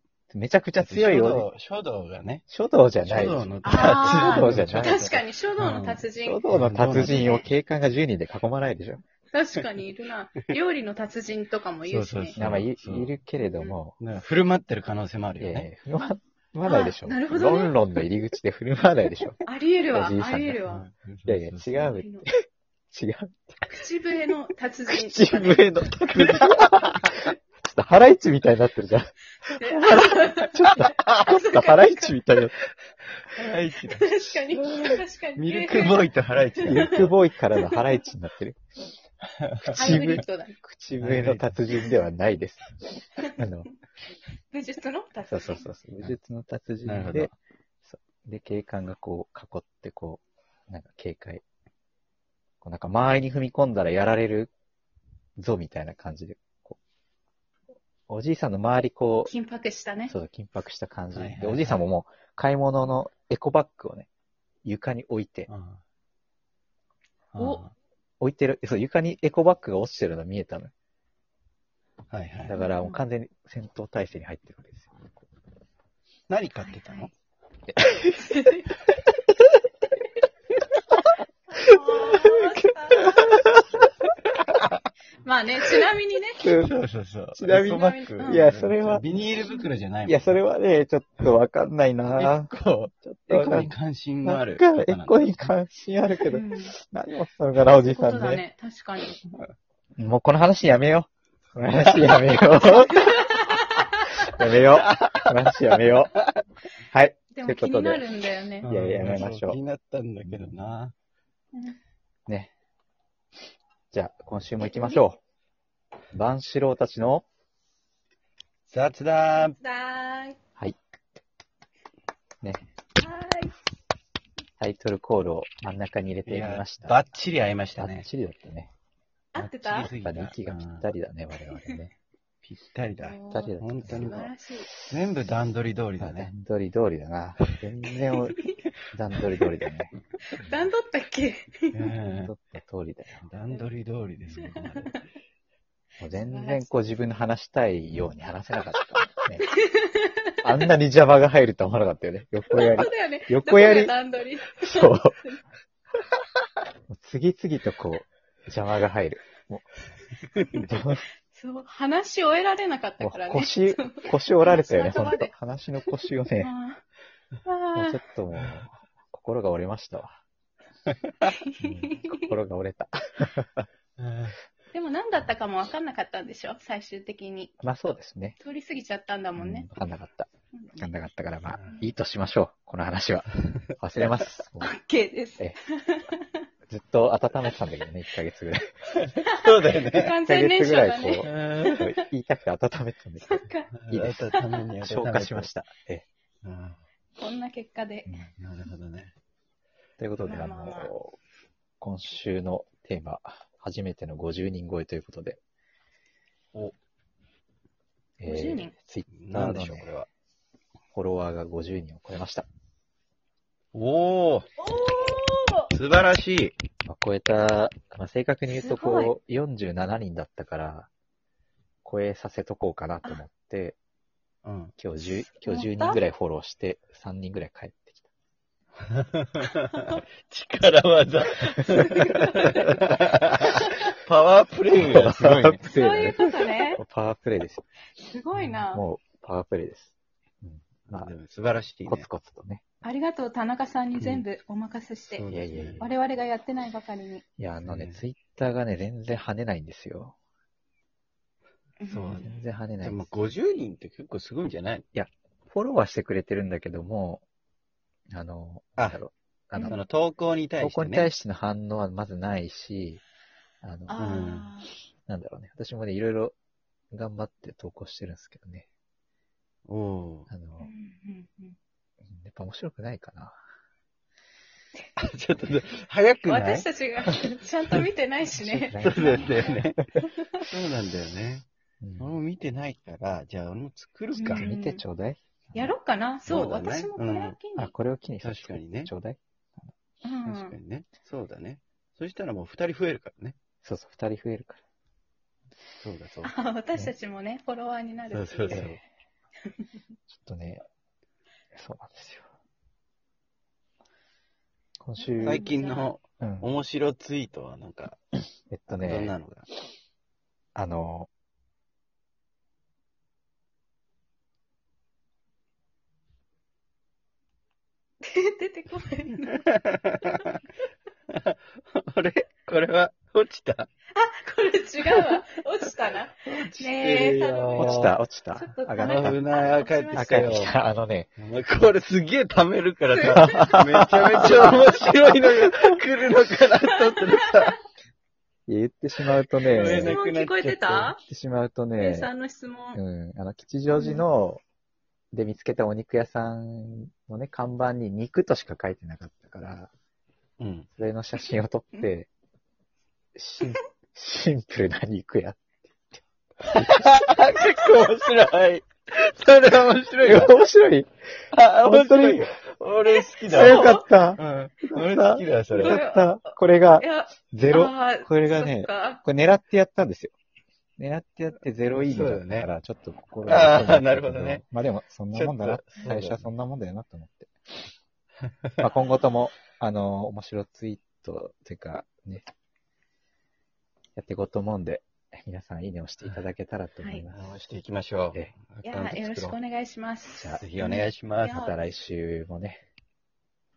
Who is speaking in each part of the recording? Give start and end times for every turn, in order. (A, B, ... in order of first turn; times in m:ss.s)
0:00.3-0:01.5 A
0:00.8-0:02.4 B
0:02.5-0:05.1 A
0:03.0-0:07.3 B
0:03.6-0:06.4 C
0:06.2-0:09.0 A
0:07.0-0:07.5 C
0:09.3-0:12.4 C
0:11.8-0:13.1 B
0:12.4-0:14.0 A
0:13.4-0:13.7 C
0:14.0-0:15.7 B
0:15.4-0:20.6 A
0:16.6-0:17.8 C
0:19.4-0:20.9 C
0:20.6-0:21.9 B
0:21.2-0:23.4 A
0:21.8-0:22.3 C
0:23.7-0:25.7 C
0:24.9-0:32.6 A
0:26.1-0:27.1 B
0:29.4-0:32.2 C
0:33.3-0:37.1 B
0:33.7-0:38.0 C
0:36.6-0:38.6 A
0:39.4-0:40.2 B
0:39.7-0:43.7 A
0:39.7-0:40.6 C
0:41.0-0:41.6 B
0:44.5-0:45.7 C
0:45.3-0:47.3 A
0:46.8-0:47.3 B
0:47.8-0:51.4 A
0:52.6-0:54.5 A
0:55.4-0:56.8 A
0:58.1-0:59.3 A
0:59.2-1:00.1 C
1:00.1-1:04.1 A
1:01.1-1:01.8 B
1:04.6-1:05.5 A
1:05.5-1:05.8 B
1:07.3-1:07.7 B
1:07.4-1:07.6 C
1:08.2-1:10.7 A
1:12.1-1:12.6 B
1:12.5-1:15.0 A
1:12.5-1:13.0 C
1:16.3-1:17.1 B
1:16.6-1:17.1 C
1:17.7-1:18.5 A
1:18.2-1:18.7 C
1:21.6-1:23.4 C
1:21.6-1:23.9 A
1:25.2-1:26.5 C
1:26.4-1:26.7 A
1:26.6-1:30.4 B
1:27.4-1:29.0 A
1:27.5-1:28.5 C
1:30.0-1:32.5 A
1:32.1-1:35.2 B
1:33.0-1:38.4 A
1:36.2-1:36.7 C
1:37.7-1:39.3 C
1:40.0-1:43.4 A
1:42.5-1:43.9 C
1:44.2-1:46.1 A
1:44.6-1:46.3 B
1:46.9-1:48.0 A
1:47.3-1:48.7 C
1:48.6-1:50.9 B
1:48.6-1:49.6 A
1:53.9-1:55.2 A
1:54.6-1:55.0 C
1:56.1-1:57.2 A
1:58.7-1:59.6 B
1:59.4-2:00.4 C
2:03.0-2:03.6 C
2:04.6-2:07.0 A
2:06.2-2:08.1 B
2:07.8-2:08.7 A
2:09.3-2:09.9 C
2:09.4-2:10.9 B
2:09.8-2:11.9 A
2:11.5-2:11.8 C
2:12.4-2:14.3 B
2:13.0-2:14.7 C
2:13.3-2:14.2 A
2:14.9-2:16.3 B
2:16.0-2:18.4 A
2:18.1-2:18.6 C
2:18.9-2:19.9 A
2:20.3-2:21.9 C
2:21.7-2:22.3 B
2:22.1-2:23.3 A
2:23.2-2:25.0 B
2:24.4-2:25.0 C
2:26.0-2:29.5 A
2:26.1-2:26.7 C
2:29.4-2:30.6 C
2:30.4-2:33.9 A
2:32.5-2:35.4 C
2:34.6-2:35.2 A
2:36.9-2:39.7 A
2:40.4-2:41.0 A
2:41.3-2:46.8 C
2:43.0-2:46.5 A
2:47.4-2:48.0 C
2:47.7-2:50.2 A
2:51.2-2:52.3 C
2:51.6-2:53.7 A
2:54.0-2:54.4 B
2:54.7-2:57.6 C
2:57.6-2:58.4 A
2:58.4-2:59.7 C
2:59.4-3:04.7 A
3:00.5-3:00.9 C
3:04.6-3:06.4 C
3:06.7-3:08.7 A
3:09.2-3:10.2 B
3:09.2-3:12.0 C
3:10.2-3:16.0 A
3:11.2-3:11.8 B
3:13.2-3:13.7 C
3:13.8-3:15.5 B
3:14.3-3:14.6 C
3:16.4-3:16.8 B
3:17.2-3:18.1 C
3:18.0-3:18.3 A
3:18.4-3:19.1 B
3:20.0-3:21.2 A
3:20.3-3:20.9 C
3:21.8-3:25.4 A
3:28.2-3:29.9 A
3:28.2-3:28.7 C
3:29.1-3:30.1 B
3:30.9-3:32.4 A
3:33.7-3:34.5 B
3:34.6-3:35.7 C
3:35.7-3:36.6 B
3:36.9-3:40.9 A
3:38.5-3:39.1 C
3:41.8-3:43.8 A
3:44.4-3:44.7 B
3:44.8-3:48.1 A
3:45.1-3:46.0 C
3:48.9-3:55.6 B
3:51.6-3:52.8 C
3:54.7-3:57.6 A
3:55.6-3:56.8 C
3:58.0-3:58.8 C
3:58.3-3:58.6 B
3:58.7-4:01.1 A
4:00.9-4:02.1 B
4:01.8-4:02.6 A
4:02.8-4:05.2 C
4:04.0-4:04.2 B
4:05.1-4:05.8 B
4:05.3-4:05.9 A
4:05.8-4:07.2 C
4:07.4-4:10.1 A
4:07.6-4:08.0 B
4:11.8-4:12.2 C
4:11.9-4:14.8 B
4:12.1-4:13.0 A
4:14.9-4:17.2 A
4:18.1-4:19.8 A
4:19.7-4:21.1 B
4:20.6-4:23.0 A
4:23.6-4:24.0 A
4:23.9-4:24.7 C
4:24.0-4:24.5 B
4:25.1-4:26.3 A
4:26.9-4:28.7 A
4:29.6-4:30.3 B
4:30.3-4:30.7 A
4:30.6-4:31.6 C
4:32.1-4:33.4 A
4:35.0-4:37.2 B
4:36.3-4:39.6 C
4:38.4-4:39.3 A
4:38.8-4:39.8 B
4:40.5-4:41.4 B
4:41.8-4:42.1 A
4:42.0-4:44.5 B
4:44.1-4:44.8 C
4:44.3-4:45.7 A
4:45.5-4:47.7 C
4:46.3-4:47.4 B
4:47.6-4:49.7 A
4:48.2-4:48.9 B
4:50.0-4:50.6 C
4:50.2-4:53.4 B
4:53.6-4:54.6 A
4:55.8-4:56.3 B
4:56.2-4:58.7 C
4:58.1-4:58.8 B
4:58.5-4:58.8 A
5:00.1-5:00.6 A
5:01.5-5:02.3 A
5:04.8-5:05.5 A
5:05.0-5:05.9 C
5:05.2-5:08.0 B
5:06.2-5:06.5 A
5:08.5-5:09.1 A
5:08.7-5:09.5 B
5:10.5-5:11.1 A
5:18.0-5:19.5 C
5:19.4-5:20.3 B
5:21.1-5:23.7 B
5:24.0-5:30.1 C
5:26.2-5:27.9 B
5:27.6-5:29.2 A
5:28.8-5:30.5 B
5:29.9-5:31.1 A
5:31.2-5:37.6 B
5:32.9-5:33.6 C
5:33.1-5:34.7 A
5:34.2-5:34.6 C
5:37.0-5:37.5 C
5:38.5-5:40.0 A
5:39.4-5:40.9 B
5:39.5-5:41.0 C
5:41.0-5:42.1 A
5:41.8-5:42.8 C
5:42.7-5:44.4 A
5:43.7-5:44.0 C
5:45.1-5:49.7 A
5:50.4-5:50.7 B
5:50.7-5:52.1 A
5:53.2-5:55.5 A
5:56.4-6:00.4 B
6:00.0-6:00.9 A
6:01.3-6:05.8 B
6:01.6-6:02.3 A
6:02.9-6:03.9 C
6:03.3-6:10.1 A
6:05.5-6:09.0 C
6:10.8-6:17.3 A
6:11.8-6:12.5 B
6:13.2-6:14.4 B
6:15.1-6:16.3 B
6:18.3-6:18.7 B
6:18.6-6:22.2 A
6:24.0-6:27.2 A
6:27.1-6:29.4 B
6:28.6-6:31.6 C
6:30.2-6:30.4 A
6:30.4-6:31.4 B
6:31.3-6:32.6 A